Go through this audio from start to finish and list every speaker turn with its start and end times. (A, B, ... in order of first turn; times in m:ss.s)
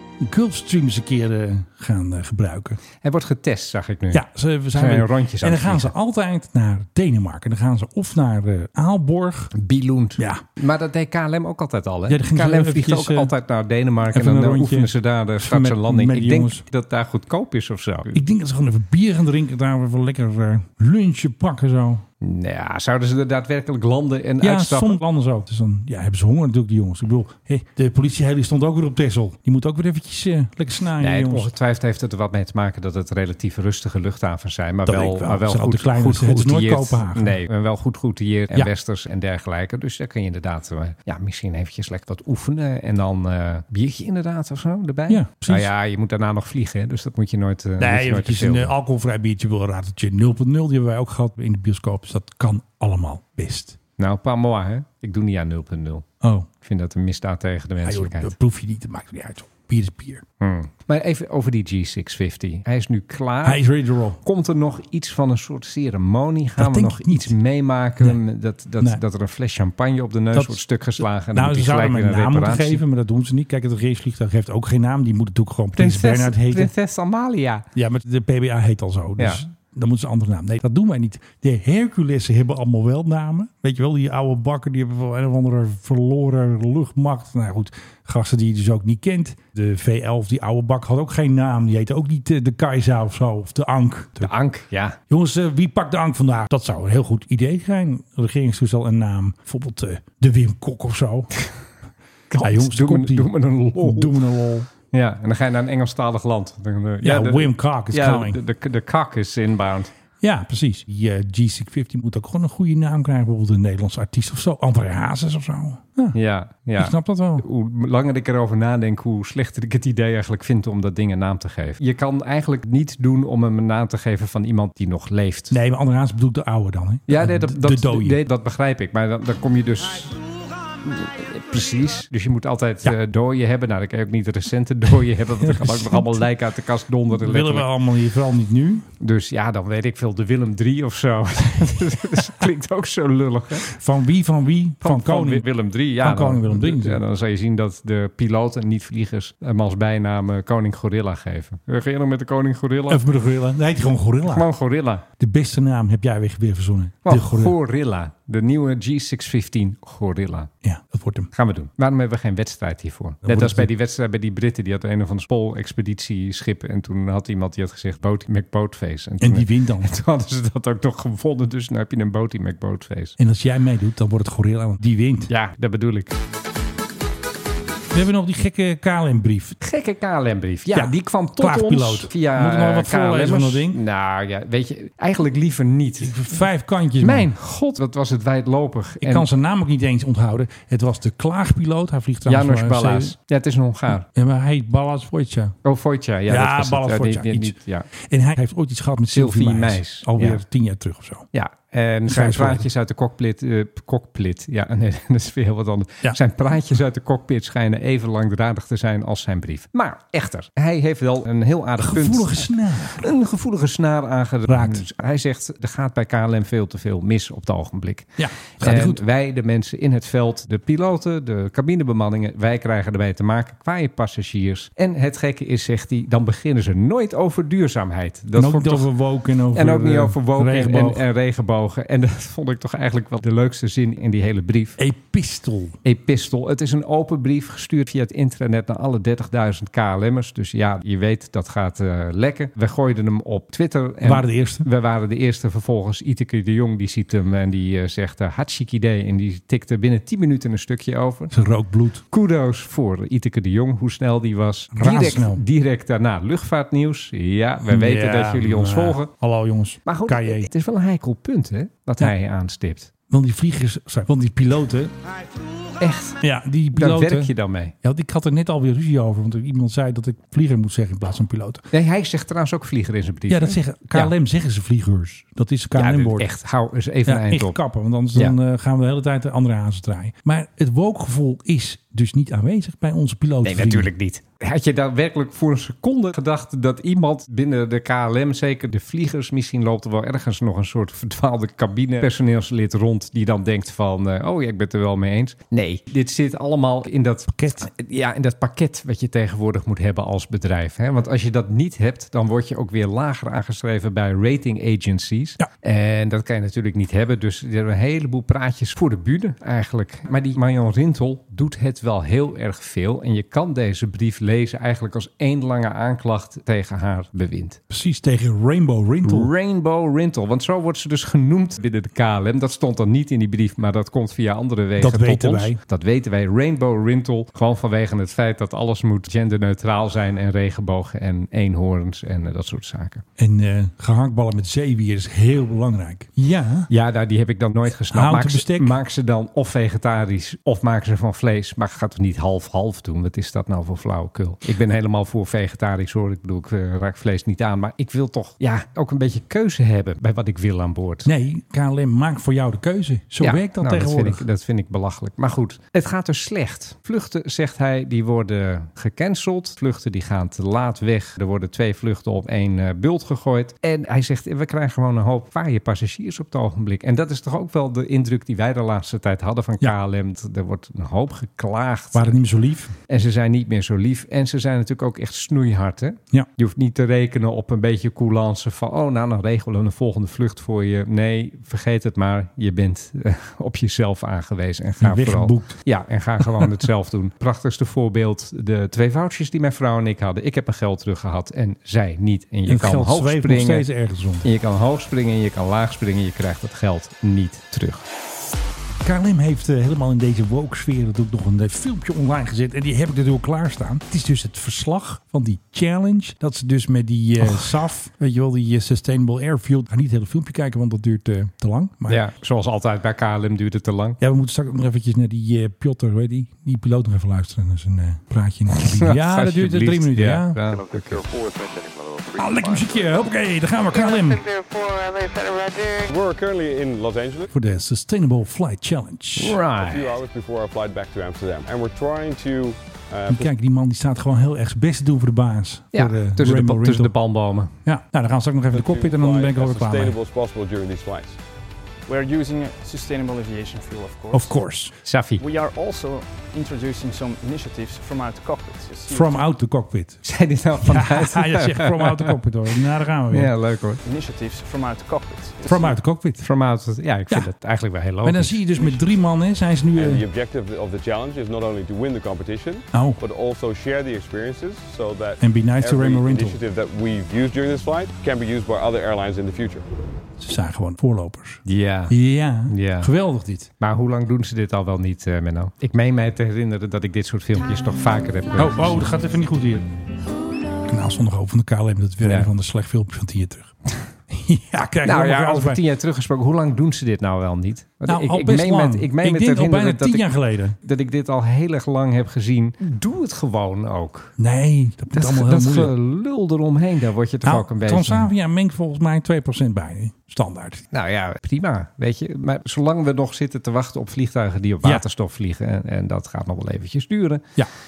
0:00.2-0:02.8 A
0:03.0-0:05.9 B
0:04.1-0:09.5 A
0:09.5-0:18.2 B
0:10.2-0:10.4 A
0:12.1-0:13.3 A
0:14.1-0:16.6 A
0:18.1-0:22.0 A
0:22.2-0:25.0 B
0:24.4-0:31.5 A
0:31.0-0:48.7 B
0:34.8-0:37.4 A
0:45.1-0:45.7 A
0:47.8-0:53.8 A
0:54.0-0:56.0 B
0:56.2-0:56.5 A
0:56.6-0:58.3 B
0:57.8-1:00.2 A
1:00.4-1:03.6 B
1:03.4-1:04.2 A
1:04.2-1:12.8 B
1:06.6-1:07.3 A
1:10.3-1:16.7 A
1:15.8-1:17.6 B
1:17.7-1:34.3 A
1:34.2-1:35.0 B
1:35.1-1:41.3 A
1:42.3-1:44.2 B
1:42.4-1:44.7 A
1:44.9-1:49.9 B
1:47.0-1:48.4 A
1:50.2-1:56.2 A
1:56.1-2:05.6 B
1:56.8-1:57.4 A
2:05.5-2:08.2 A
2:07.1-2:10.2 B
2:10.8-2:17.7 B
2:15.4-2:16.2 A
2:17.1-2:18.9 A
2:19.0-2:23.7 B
2:23.7-2:27.0 A
2:24.8-2:33.0 B
2:32.9-2:34.5 A
2:34.2-2:35.0 B
2:35.2-2:37.6 A
2:37.0-2:40.5 B
2:40.6-2:41.3 A
2:41.3-2:53.2 B
2:43.2-2:43.7 A
2:49.2-2:49.9 A
2:53.2-2:55.3 A
2:55.3-2:56.1 B
2:57.9-2:59.6 A
2:59.6-3:06.4 B
3:00.7-3:03.8 A
3:06.0-3:07.3 A
3:07.0-3:09.3 B
3:09.0-3:13.1 A
3:12.2-3:14.0 B
3:14.0-3:15.5 A
3:15.6-3:17.9 B
3:16.3-3:21.2 A
3:19.1-3:20.4 B
3:21.3-3:48.9 B
3:22.1-3:22.6 A
3:31.8-3:33.1 A
3:34.5-3:34.8 A
3:38.2-3:39.0 A
3:48.3-3:51.0 A
3:49.5-3:54.8 B
3:54.8-3:55.8 A
3:55.8-4:11.3 B
4:04.0-4:04.6 A
4:11.3-4:12.0 A
4:12.1-4:19.1 B
4:14.7-4:15.4 A
4:17.6-4:20.5 A
4:19.8-4:22.9 B
4:23.1-4:24.9 A
4:25.8-4:26.2 B
4:26.2-4:31.6 A
4:26.7-4:27.7 B
4:31.7-4:34.1 B
4:33.3-4:36.3 A
4:35.7-4:37.6 B
4:37.0-4:43.9 A
4:43.4-5:17.6 B
4:57.3-4:57.7 A
5:17.7-5:19.3 A
5:19.0-5:33.0 B
5:24.8-5:25.6 A
5:33.2-5:36.7 A
5:36.7-5:51.1 B
5:37.7-5:38.8 A
5:51.0-5:54.2 A
5:53.2-6:12.2 B
6:11.9-6:12.7 A
6:12.9-6:33.7 B
6:24.8-6:25.6 A
6:26.2-6:26.5 A
6:32.5-6:34.2 A
6:34.2-6:37.8 B
6:38.8-6:52.0 A
6:51.9-6:54.0 B
6:54.0-7:00.4 A
6:58.5-7:01.1 B
7:02.2-7:04.3 A
7:05.9-7:07.3 C
7:07.3-7:09.4 A
7:09.2-7:09.9 B
7:09.6-7:13.3 C
7:13.1-7:16.9 A
7:15.7-7:17.6 B
7:17.6-7:20.0 A
7:18.5-7:21.2 C
7:21.9-7:24.4 D
7:24.1-7:24.7 A
7:24.8-7:25.2 B
7:25.2-7:29.2 D
7:28.9-7:30.0 A
7:30.0-7:32.1 B
7:30.6-7:33.3 A
7:33.1-7:33.8 B
7:33.8-7:35.8 D
7:35.4-7:36.2 A
7:36.2-7:38.4 B
7:38.0-7:40.0 A
7:39.7-7:49.7 C
7:42.7-7:43.0 A
7:45.2-7:46.4 A
7:50.2-7:53.5 A
7:51.4-7:52.0 B
7:52.5-7:52.9 B
7:53.6-7:58.9 B
7:58.4-7:59.6 A
8:00.7-8:03.5 A
8:02.0-8:02.3 B
8:04.1-8:05.6 A
8:04.8-8:10.1 B
8:07.8-8:10.6 A
8:10.6-8:14.1 B
8:14.2-8:15.7 A
8:14.9-8:18.1 B
8:17.2-8:20.6 A
8:20.7-8:27.3 B